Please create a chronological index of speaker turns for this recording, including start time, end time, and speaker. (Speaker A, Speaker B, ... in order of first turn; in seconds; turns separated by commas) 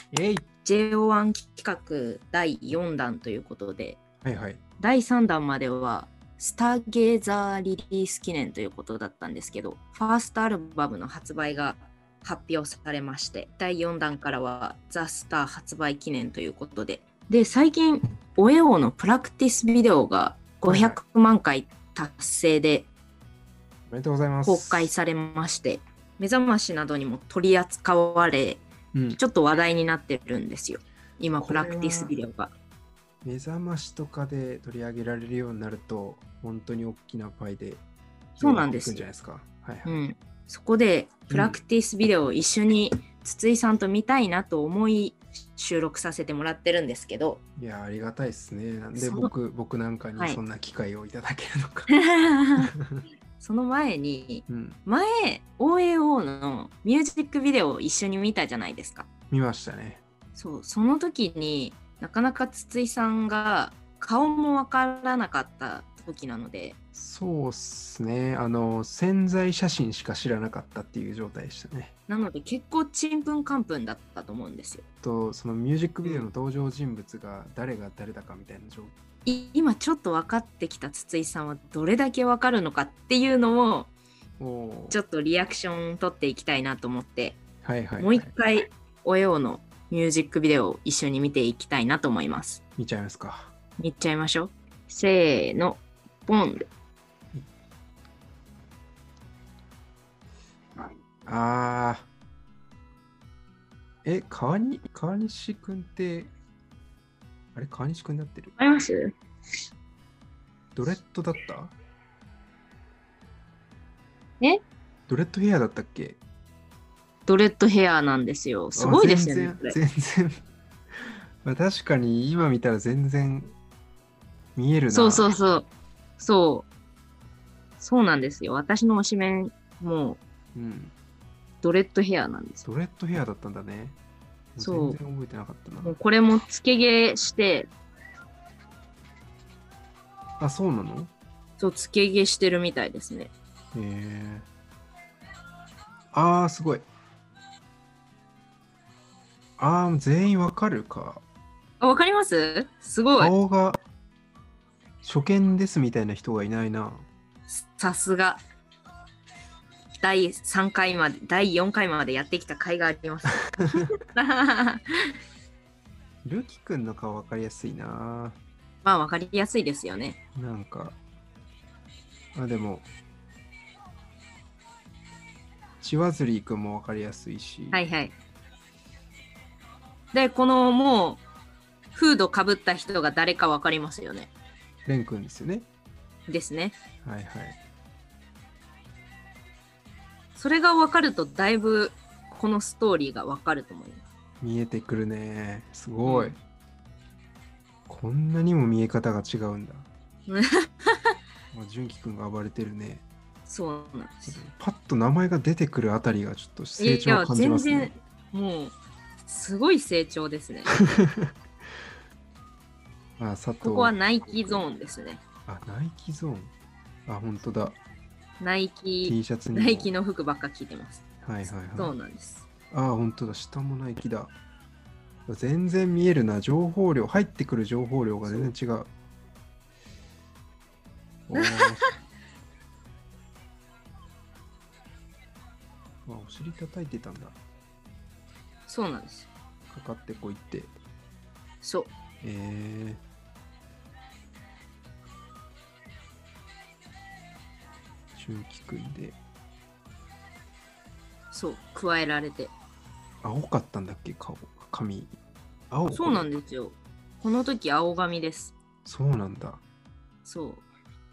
Speaker A: 0.1-0.5, Speaker B: 0.6-4.0, Speaker A: 4.2-4.6, Speaker B: 4.8-22.9, Speaker A: 20.6-21.0, Speaker A: 23.9-24.9, Speaker B: 24.4-28.6, Speaker A: 28.9-29.2, Speaker B: 29.1-32.5, Speaker A: 31.4-32.1, Speaker A: 33.2-37.8, Speaker A: 38.4-40.0, Speaker B: 38.4-39.0, Speaker B: 39.8-47.4, Speaker A: 41.3-41.6, Speaker A: 47.6-51.9, Speaker B: 48.9-49.3, Speaker B: 51.9-52.7, Speaker B: 53.4-59.1, Speaker A: 54.5-54.8, Speaker A: 59.3-60.0, Speaker B: 60.3-66.8, Speaker A: 66.9-71.9, Speaker B: 72.1-74.8, Speaker A: 75.0-78.9, Speaker B: 79.2-83.9, Speaker A: 84.4-85.0, Speaker B: 84.9-87.4, Speaker A: 87.6-88.3, Speaker B: 88.0-92.6, Speaker A: 92.8-93.5, Speaker B: 93.8-96.7, Speaker A: 101.2-102.1, Speaker A: 104.0-106.3, Speaker A: 107.5-108.5, Speaker B: 108.6-109.1, Speaker A: 110.7-111.7, Speaker A: 115.1-116.2, Speaker B: 117.2-119.8, Speaker A: 118.7-120.4, Speaker A: 121.0-123.5, Speaker A: 124.5-125.3, Speaker B: 124.9-125.7, Speaker B: 126.2-126.7, Speaker B: 127.8-130.2, Speaker A: 130.5-130.9, Speaker B: 131.6-132.7, Speaker A: 132.6-134.0, Speaker A: 134.6-136.0, Speaker B: 134.6-135.0, Speaker B: 135.8-137.7, Speaker A: 140.4-141.1, Speaker B: 141.6-143.3, Speaker A: 143.7-144.5, Speaker A: 146.1-146.8, Speaker A: 149.6-151.2, Speaker B: 151.8-153.3, Speaker A: 153.2-153.8, Speaker A: 155.0-157.1, Speaker B: 157.5-158.4, Speaker B: 160.0-164.8, Speaker A: 166.2-168.4, Speaker B: 168.8-170.2, Speaker A: 170.3-171.0, Speaker A: 172.3-172.9, Speaker A: 175.8-177.8, Speaker B: 177.7-178.1, Speaker B: 180.1-181.2, Speaker B: 181.9-184.3, Speaker A: 184.8-185.7, Speaker B: 186.3-186.8, Speaker A: 187.0-187.6, Speaker B: 190.3-194.0, Speaker A: 194.4-196.4, Speaker B: 196.0-196.4, Speaker A: 197.9-199.9, Speaker B: 200.3-201.1, Speaker A: 201.5-203.0, Speaker B: 203.4-204.4, Speaker A: 204.3-207.9, Speaker B: 206.8-208.7, Speaker B: 209.3-210.7, Speaker A: 210.9-211.3, Speaker A: 213.2-214.6, Speaker B: 213.6-215.2, Speaker A: 215.5-216.5, Speaker A: 217.1-217.8, Speaker B: 218.4-222.4, Speaker A: 219.0-219.9, Speaker A: 221.2-221.9, Speaker A: 222.7-224.3, Speaker A: 225.3-228.9, Speaker B: 228.2-228.5, Speaker A: 231.3-231.8, Speaker B: 231.3-231.9, Speaker A: 236.1-237.4, Speaker B: 238.7-239.3, Speaker A: 239.7-240.7, Speaker B: 241.6-241.9, Speaker A: 242.2-243.0, Speaker A: 248.2-249.2, Speaker B: 251.3-252.5, Speaker A: 253.2-255.2, Speaker A: 255.7-256.3, Speaker B: 255.9-258.5, Speaker A: 258.8-259.6, Speaker B: 260.2-260.6